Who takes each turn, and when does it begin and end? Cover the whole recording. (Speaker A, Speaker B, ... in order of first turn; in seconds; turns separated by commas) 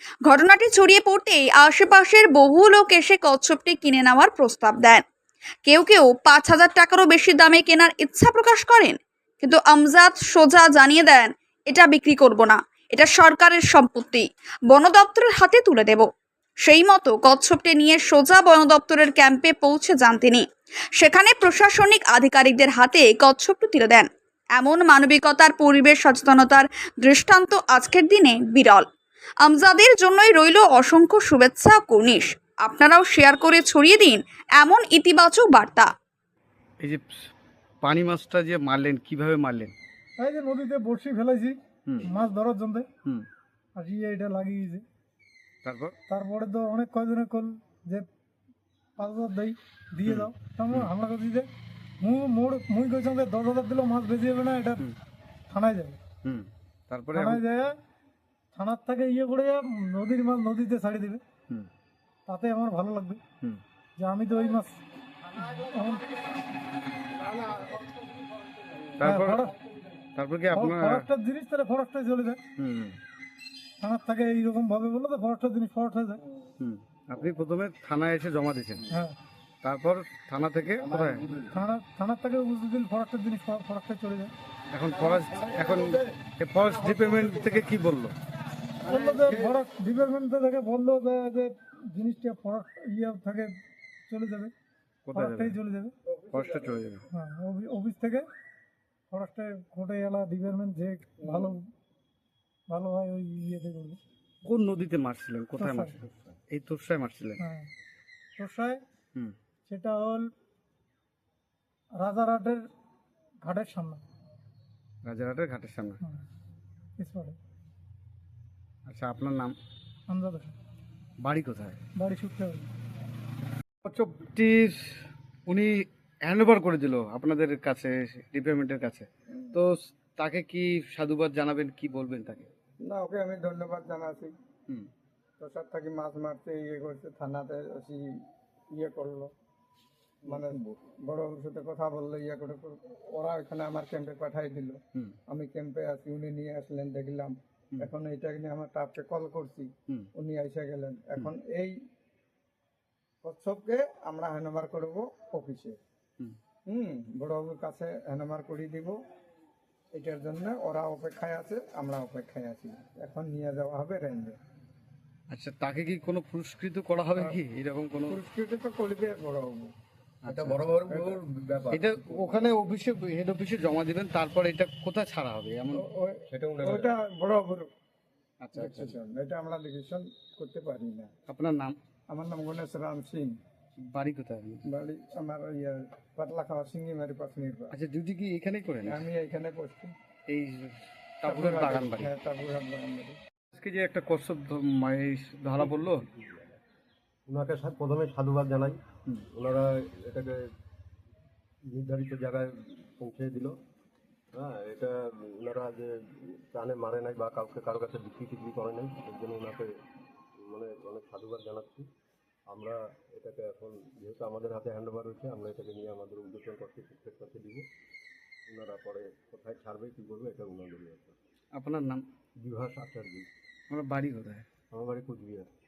Speaker A: 0.2-5.0, Speaker A: 5.7-16.1, Speaker A: 16.6-20.4, Speaker A: 20.9-28.9, Speaker A: 29.4-35.9, Speaker B: 36.8-37.3, Speaker B: 37.8-39.7, Speaker C: 40.2-42.9, Speaker B: 41.9-42.1, Speaker C: 43.8-44.8, Speaker B: 45.6-45.9, Speaker C: 46.1-48.1, Speaker C: 49.0-51.5, Speaker B: 50.1-50.9, Speaker C: 52.0-54.9, Speaker C: 55.5-56.0, Speaker B: 56.2-57.5, Speaker C: 57.1-57.7, Speaker C: 58.5-61.2, Speaker C: 62.3-63.2, Speaker C: 64.0-64.8, Speaker C: 65.5-66.2, Speaker B: 69.0-69.5, Speaker C: 69.0-69.5, Speaker B: 70.1-71.0, Speaker C: 70.5-72.4, Speaker B: 72.6-73.0, Speaker C: 73.8-76.2, Speaker B: 76.6-78.9, Speaker C: 78.9-79.2, Speaker B: 79.6-81.4, Speaker C: 81.5-84.3, Speaker B: 84.7-88.2, Speaker C: 85.6-86.0, Speaker C: 88.8-93.5, Speaker D: 88.8-89.5, Speaker C: 94.1-94.5, Speaker B: 95.0-95.6, Speaker C: 95.1-96.0, Speaker D: 96.1-96.8, Speaker B: 96.3-97.0, Speaker C: 97.1-98.3, Speaker C: 99.1-101.6, Speaker D: 101.2-101.5, Speaker C: 102.7-104.0, Speaker B: 104.4-107.4, Speaker C: 105.6-106.0, Speaker C: 107.4-107.7, Speaker C: 108.4-108.8, Speaker C: 109.7-110.3, Speaker C: 112.0-112.7, Speaker C: 113.4-114.0, Speaker B: 115.0-116.0, Speaker C: 116.0-116.2, Speaker C: 117.0-117.4, Speaker B: 118.8-119.5, Speaker C: 120.1-120.5, Speaker B: 121.2-121.8, Speaker C: 122.0-122.7, Speaker B: 123.8-132.5, Speaker D: 132.8-134.3, Speaker D: 135.4-138.0, Speaker D: 138.7-139.3, Speaker D: 140.2-151.7, Speaker D: 153.2-155.8, Speaker D: 156.7-159.0, Speaker D: 159.9-164.4, Speaker B: 165.3-168.2, Speaker D: 168.1-169.7, Speaker B: 170.2-170.7, Speaker E: 170.3-171.9, Speaker D: 170.9-171.2, Speaker B: 171.7-175.8, Speaker D: 175.7-177.7, Speaker E: 176.3-176.9, Speaker B: 178.4-178.9, Speaker D: 178.5-181.1, Speaker B: 181.3-181.8, Speaker D: 182.1-183.3, Speaker B: 183.8-184.6, Speaker D: 184.7-187.7, Speaker B: 187.7-189.0, Speaker D: 188.8-189.9, Speaker B: 190.3-192.1, Speaker D: 191.2-193.2, Speaker B: 193.5-196.0, Speaker E: 195.6-196.6, Speaker E: 197.3-198.8, Speaker E: 199.3-200.4, Speaker E: 201.7-203.5, Speaker E: 204.3-209.7, Speaker E: 210.4-211.9, Speaker E: 212.5-217.7, Speaker E: 218.5-221.2, Speaker B: 221.5-222.1, Speaker E: 222.4-223.3, Speaker B: 223.7-224.5, Speaker E: 224.7-225.5